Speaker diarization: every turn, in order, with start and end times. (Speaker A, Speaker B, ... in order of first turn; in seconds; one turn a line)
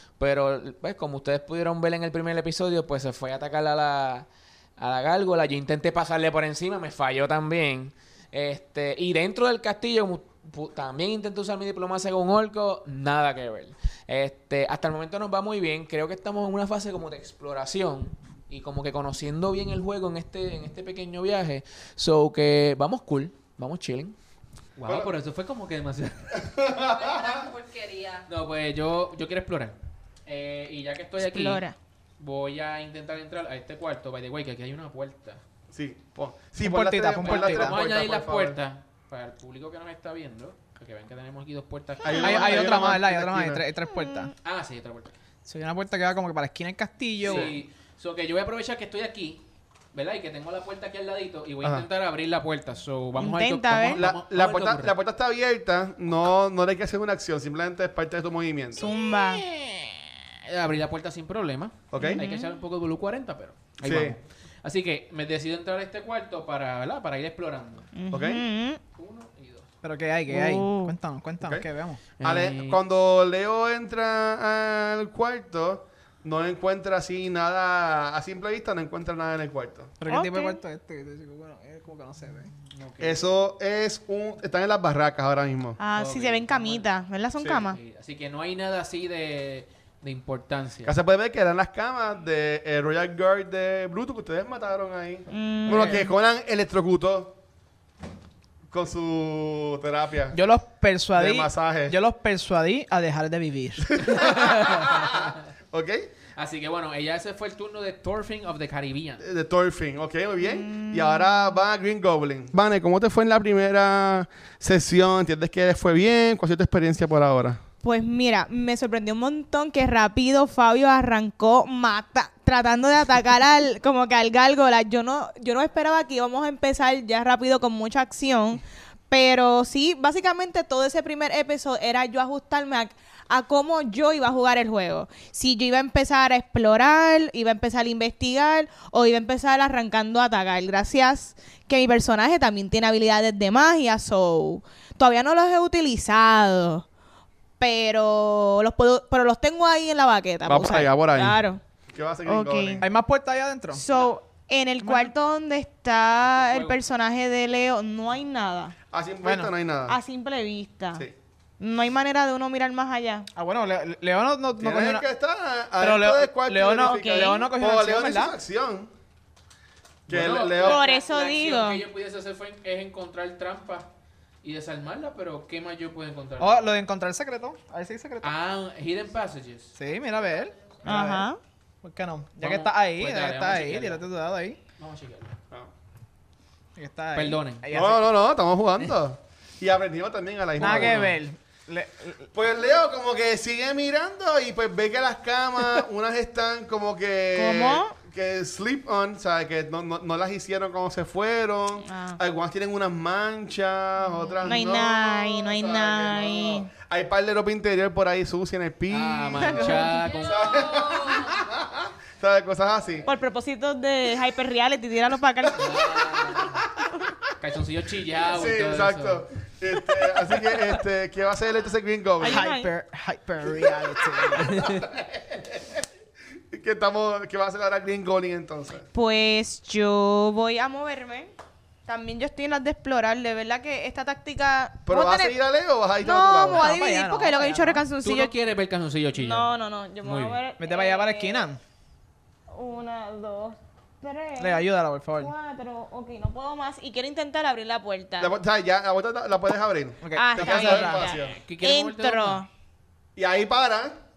Speaker A: 0.2-24.1
Speaker B: 24.8-26.4
Speaker C: 24.9-25.1
Speaker C: 26.5-27.5
Speaker D: 26.7-28.3
Speaker B: 28.3-29.7
Speaker B: 30.2-31.6
Speaker E: 31.2-31.8
Speaker B: 32.2-35.4
Speaker C: 35.7-38.6
Speaker F: 36.6-37.7
Speaker B: 37.2-42.7
Speaker C: 42.0-43.6
Speaker F: 42.2-44.3
Speaker E: 43.9-44.3
Speaker B: 44.4-45.1
Speaker F: 45.5-47.5
Speaker B: 47.2-49.4
Speaker C: 47.2-47.5
Speaker B: 49.9-55.0
Speaker C: 51.6-51.9
Speaker E: 53.2-54.0
Speaker C: 53.9-58.9
Speaker E: 58.8-59.6
Speaker B: 60.5-67.9
Speaker C: 61.9-62.2
Speaker E: 62.0-62.4
Speaker C: 63.8-64.2
Speaker E: 68.0-68.8
Speaker C: 68.1-68.4
Speaker B: 69.0-69.7
Speaker F: 69.8-72.0
Speaker E: 70.3-70.9
Speaker C: 71.4-71.7
Speaker B: 72.2-72.8
Speaker C: 72.2-79.9
Speaker F: 80.0-82.5
Speaker E: 80.1-80.6
Speaker B: 82.7-83.2
Speaker C: 83.0-85.8
Speaker E: 85.8-87.8
Speaker B: 85.9-86.9
Speaker C: 87.4-87.7
Speaker B: 87.6-90.9
Speaker C: 90.8-97.3
Speaker E: 95.3-96.1
Speaker C: 98.7-100.4
Speaker F: 100.3-103.9
Speaker C: 101.1-101.9
Speaker C: 103.9-106.1
Speaker B: 104.1-105.3
Speaker B: 106.3-109.2
Speaker C: 109.2-117.6
Speaker E: 110.4-111.4
Speaker E: 117.8-146.8
Speaker E: 147.6-151.6
Speaker C: 150.4-152.8
Speaker E: 152.2-152.8
Speaker F: 152.8-153.8
Speaker E: 153.7-158.7
Speaker F: 154.8-155.1
Speaker B: 156.4-156.8
Speaker C: 158.9-160.0
Speaker F: 159.2-159.5
Speaker E: 159.9-161.0
Speaker E: 161.6-163.3
Speaker F: 163.3-165.0
Speaker C: 164.6-168.9
Speaker F: 165.8-168.3
Speaker E: 166.8-167.5
Speaker C: 170.1-170.8
Speaker B: 170.1-173.9
Speaker E: 170.5-171.8
Speaker B: 174.4-176.7
Speaker F: 176.4-178.3
Speaker B: 178.2-179.7
Speaker F: 179.8-181.3
Speaker E: 180.8-181.4
Speaker F: 181.8-184.6
Speaker B: 182.4-184.0
Speaker B: 184.8-185.3
Speaker F: 186.8-188.0
Speaker B: 187.1-187.6
Speaker C: 187.7-191.1
Speaker F: 190.6-192.3
Speaker B: 190.6-191.2
Speaker C: 192.3-213.1
Speaker E: 197.3-197.9
Speaker E: 201.8-202.2
Speaker E: 204.4-206.7
Speaker B: 208.9-210.4
Speaker E: 209.4-209.9
Speaker D: 209.8-211.4
Speaker E: 213.1-215.9
Speaker C: 215.4-216.6
Speaker B: 215.6-216.7
Speaker B: 217.4-219.2
Speaker C: 218.2-222.4
Speaker E: 222.2-222.7
Speaker F: 222.2-224.5
Speaker B: 224.4-224.8
Speaker C: 224.4-225.8
Speaker C: 226.5-228.8
Speaker E: 228.9-231.3
Speaker E: 231.8-235.3
Speaker C: 234.8-236.7
Speaker E: 236.0-238.3
Speaker F: 236.5-237.8
Speaker B: 238.0-240.4
Speaker E: 239.2-241.5
Speaker F: 240.6-241.6
Speaker E: 242.5-244.6
Speaker F: 244.4-245.3
Speaker E: 245.2-248.3
Speaker C: 248.2-251.4
Speaker F: 250.0-251.1
Speaker E: 250.2-252.5
Speaker B: 251.4-252.4
Speaker C: 253.2-253.9